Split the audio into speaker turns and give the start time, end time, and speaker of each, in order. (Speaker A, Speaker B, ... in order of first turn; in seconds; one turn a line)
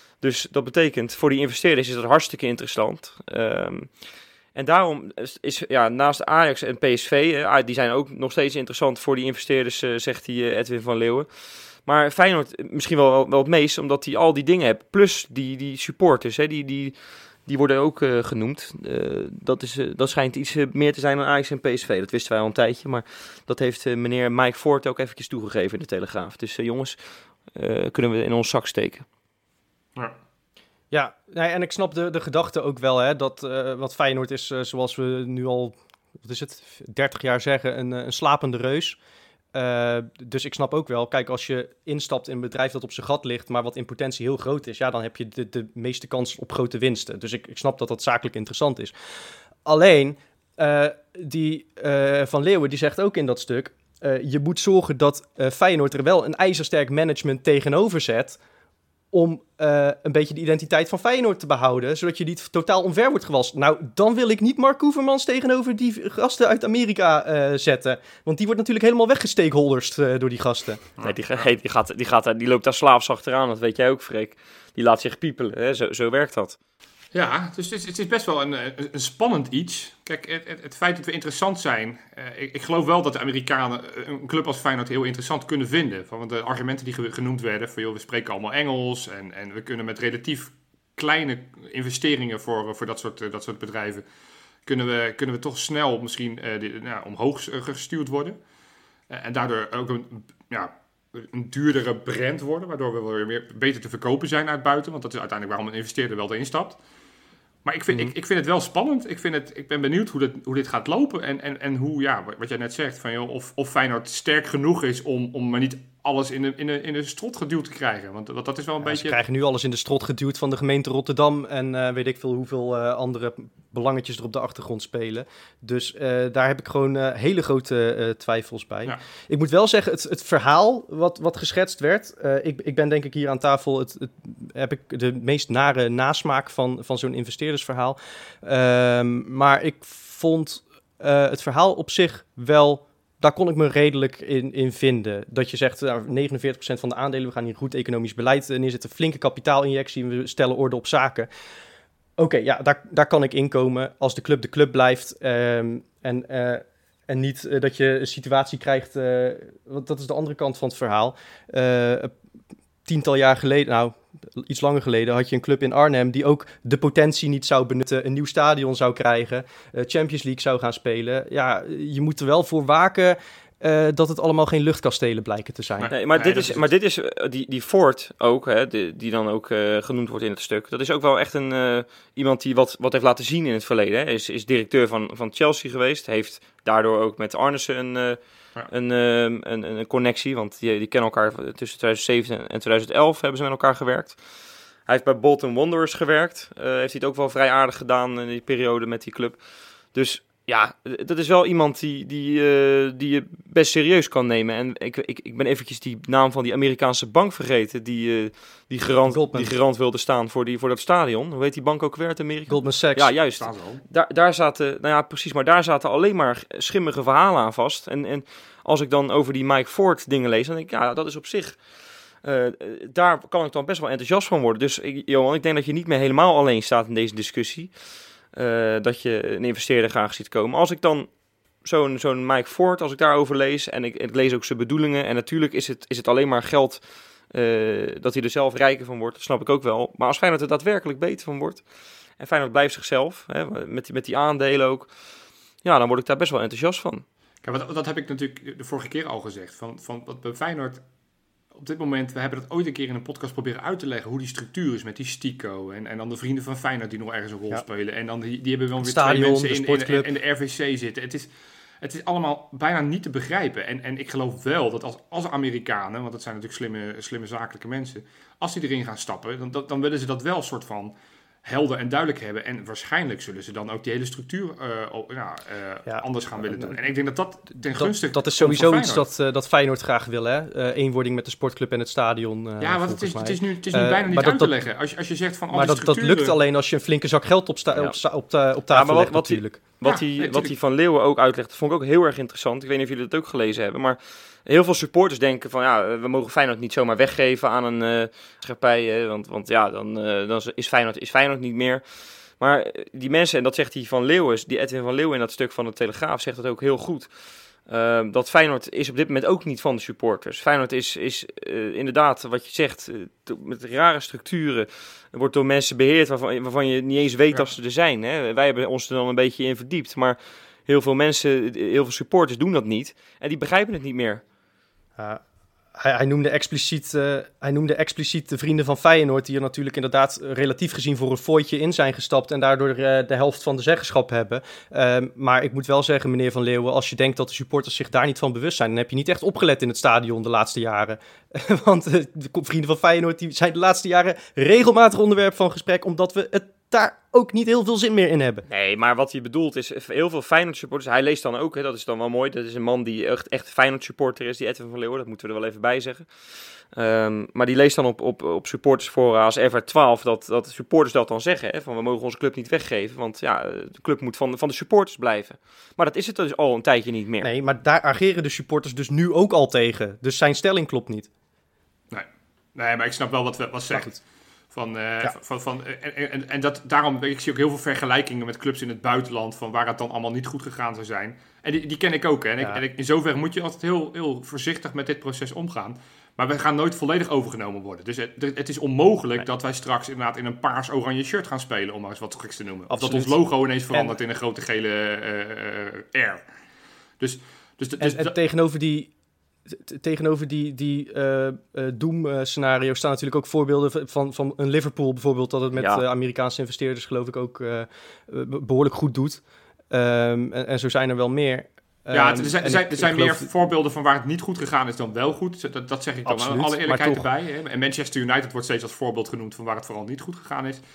Speaker A: 0.2-4.0
Speaker A: 4.5-11.3
Speaker A: 11.8-27.0
Speaker A: 27.5-29.1
Speaker B: 30.9-39.0
Speaker B: 39.5-48.9
Speaker B: 49.6-58.4
Speaker B: 59.1-70.8
Speaker A: 71.0-76.6
Speaker C: 77.1-94.0
Speaker C: 94.7-98.4
Speaker C: 99.1-106.8
Speaker C: 107.6-119.2
Speaker B: 118.8-151.3
Speaker B: 152.2-162.1
Speaker B: 162.9-175.9
Speaker C: 175.8-176.6
Speaker A: 175.9-194.2
Speaker A: 194.9-199.4
Speaker A: 199.9-221.6
Speaker B: 209.1-209.5
Speaker B: 212.5-213.1
Speaker C: 213.4-213.8
Speaker A: 222.2-227.7
Speaker A: 228.3-231.1
Speaker A: 231.6-241.6
Speaker A: 242.2-244.9
Speaker A: 245.6-247.1
Speaker C: 247.4-250.8
Speaker C: 251.6-261.3
Speaker B: 258.8-260.1
Speaker C: 261.8-279.0
Speaker B: 275.9-276.8
Speaker B: 277.8-284.5
Speaker C: 282.6-286.4
Speaker B: 285.5-289.6
Speaker A: 288.7-307.1
Speaker C: 289.8-290.5
Speaker A: 307.6-324.2
Speaker B: 325.8-348.4
Speaker A: 348.5-356.1
Speaker A: 356.7-367.3
Speaker B: 367.2-371.1
Speaker C: 371.9-374.0
Speaker B: 373.7-374.0
Speaker C: 374.5-396.3
Speaker B: 392.7-393.1
Speaker B: 393.7-393.9
Speaker C: 397.0-398.2
Speaker B: 397.8-398.9
Speaker B: 399.5-413.3
Speaker A: 405.6-405.8
Speaker C: 411.9-420.6
Speaker B: 416.1-417.1